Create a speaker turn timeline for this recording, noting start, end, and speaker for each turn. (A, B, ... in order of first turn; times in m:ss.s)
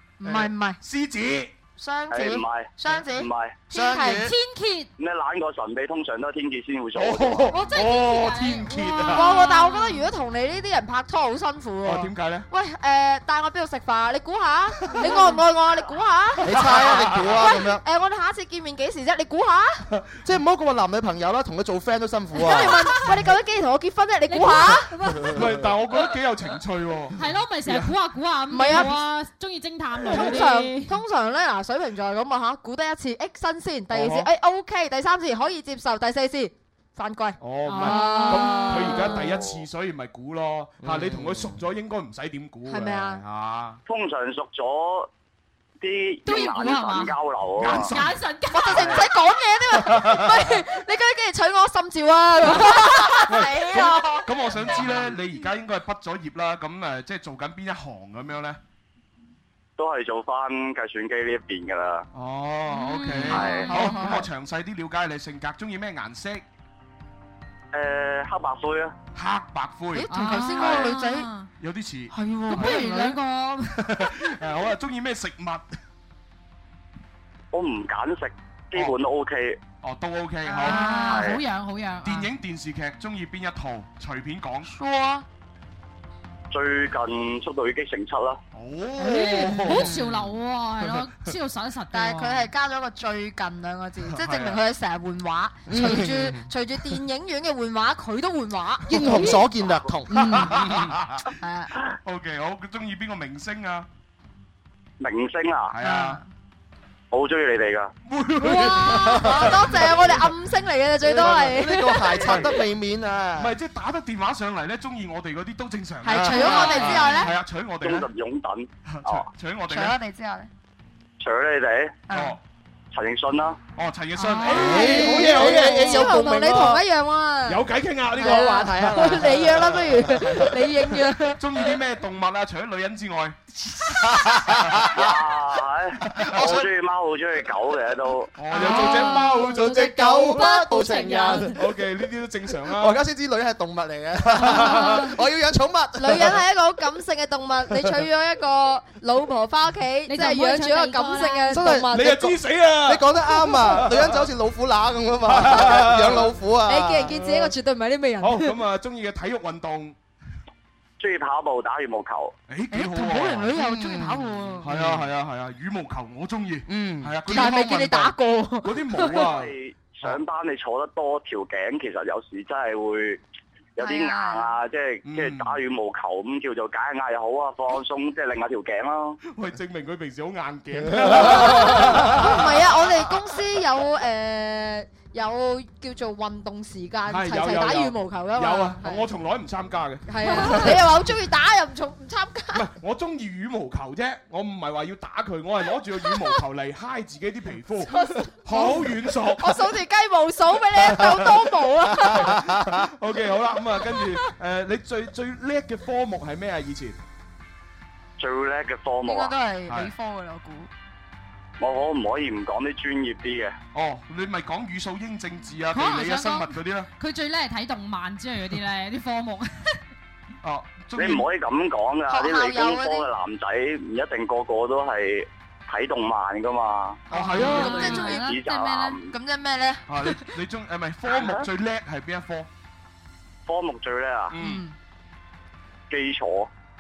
0:00.2-0:00.8 A
0:00.2-0:01.5 B
0:01.8-0:04.3 A
0:02.1-0:03.6 C
0:03.7-0:04.2 D
0:03.9-0:04.9 E
0:05.0-0:07.5 C
0:07.0-0:09.4 B
0:07.5-0:10.0 E
0:09.1-0:19.8 F
0:11.8-0:12.5 B
0:14.8-0:15.2 B
0:16.4-0:17.8 D
0:16.5-0:17.5 B
0:20.2-0:22.8 D
0:22.4-0:24.9 F
0:24.3-0:25.3 E
0:25.3-0:27.9 B
0:27.1-0:31.0 E
0:28.5-0:29.0 F
0:30.1-0:39.1 F
0:30.1-0:30.4 B
0:33.9-0:34.3 B
0:37.4-0:43.8 B
0:37.6-0:39.1 E
0:39.3-0:39.6 C
0:40.8-0:41.4 D
0:42.7-0:43.2 F
0:43.9-0:45.1 C
0:45.8-0:47.9 C
0:46.3-0:47.1 E
0:47.6-0:48.1 B
0:47.6-0:49.1 E
0:48.5-0:53.3 F
0:48.7-0:49.0 B
0:48.7-0:49.2 A
0:49.8-0:50.5 B
0:52.5-0:55.0 A
0:53.3-0:58.6 B
0:59.8-1:02.1 C
1:02.1-1:06.4 B
1:02.7-1:04.2 E
1:03.2-1:04.3 A
1:03.3-1:03.8 C
1:07.7-1:09.0 C
1:09.2-1:10.1 B
1:09.9-1:11.3 A
1:10.1-1:11.5 E
1:11.6-1:13.0 B
1:12.1-1:13.2 A
1:12.6-1:13.7 E
1:13.8-1:15.6 B
1:17.5-1:19.6 C
1:19.8-1:20.8 B
1:20.5-1:22.3 E
1:20.6-1:21.4 A
1:21.0-1:21.4 C
1:22.0-1:24.7 B
1:24.6-1:25.2 A
1:26.5-1:28.4 C
1:28.5-1:30.3 B
1:29.0-1:32.5 E
1:29.1-1:29.8 A
1:31.9-1:38.0 A
1:34.0-1:34.6 B
1:35.7-1:36.2 D
1:35.8-1:36.3 B
1:37.7-1:39.2 F
1:38.9-1:41.0 D
1:39.1-1:39.4 E
1:39.6-1:39.9 C
1:40.1-1:40.5 F
1:40.3-1:41.0 B
1:41.4-1:41.7 A
1:42.0-1:43.9 B
1:45.0-1:45.8 C
1:45.7-1:46.2 B
1:45.8-1:46.2 A
1:47.1-1:47.9 C
1:48.0-1:50.3 B
1:48.4-1:52.4 F
1:51.0-1:53.6 D
1:51.2-1:51.7 B
1:52.2-1:52.6 B
1:53.4-1:58.1 B
1:56.0-1:57.3 F
1:56.0-1:57.4 A
1:57.8-1:59.3 C
1:58.8-2:00.0 B
1:59.6-2:00.5 A
2:01.2-2:02.0 C
2:02.1-2:02.4 A
2:02.1-2:02.4 B
2:02.9-2:03.6 C
2:03.8-2:06.8 B
2:04.2-2:05.8 A
2:04.4-2:11.4 F
2:04.8-2:06.7 D
2:07.5-2:09.5 B
2:08.3-2:08.9 A
2:08.6-2:10.5 D
2:11.4-2:13.4 B
2:14.2-2:14.9 D
2:14.5-2:14.9 B
2:14.9-2:18.3 C
2:16.1-2:16.6 B
2:18.4-2:20.6 B
2:18.5-2:21.4 A
2:19.5-2:21.5 D
2:20.5-2:21.5 E
2:21.5-2:23.0 B
2:22.7-2:26.4 D
2:24.4-2:25.0 B
2:26.0-2:32.4 F
2:30.1-2:31.8 E
2:31.5-2:31.9 D
2:31.9-2:34.2 B
2:32.8-2:37.2 D
2:35.3-2:36.3 B
2:36.7-2:38.5 F
2:38.2-2:40.0 B
2:41.0-2:42.4 C
2:42.5-2:43.6 B
2:42.7-2:44.9 A
2:43.6-2:44.3 D
2:44.6-2:50.2 B
2:46.7-2:47.4 D
2:47.3-2:48.4 A
2:47.3-2:49.1 F
2:49.2-2:53.2 C
2:53.8-2:59.2 C
2:53.8-2:54.6 A
2:55.0-2:55.6 B
2:59.3-3:02.8 B
3:01.0-3:09.1 F
3:07.1-3:10.9 B
3:10.1-3:12.6 F
3:12.5-3:19.7 B
3:17.9-3:22.4 F
3:20.9-3:21.4 B
3:22.0-3:27.0 B
3:22.4-3:22.6 D
3:28.2-3:29.4 C
3:29.0-3:30.7 A
3:29.7-3:29.9 B
3:31.6-3:33.6 C
3:33.7-3:36.9 B
3:35.7-3:39.8 E
3:40.4-3:41.3 B
3:41.0-3:47.0 C
3:42.1-3:43.1 A
3:47.1-3:50.4 A
3:47.1-3:48.1 B
3:47.2-3:49.0 E
3:47.7-3:49.1 C
3:49.9-3:52.5 B
3:51.0-3:51.5 C
3:53.5-3:54.3 C
3:54.3-3:54.6 B
3:54.4-3:54.7 A
3:55.9-3:56.5 C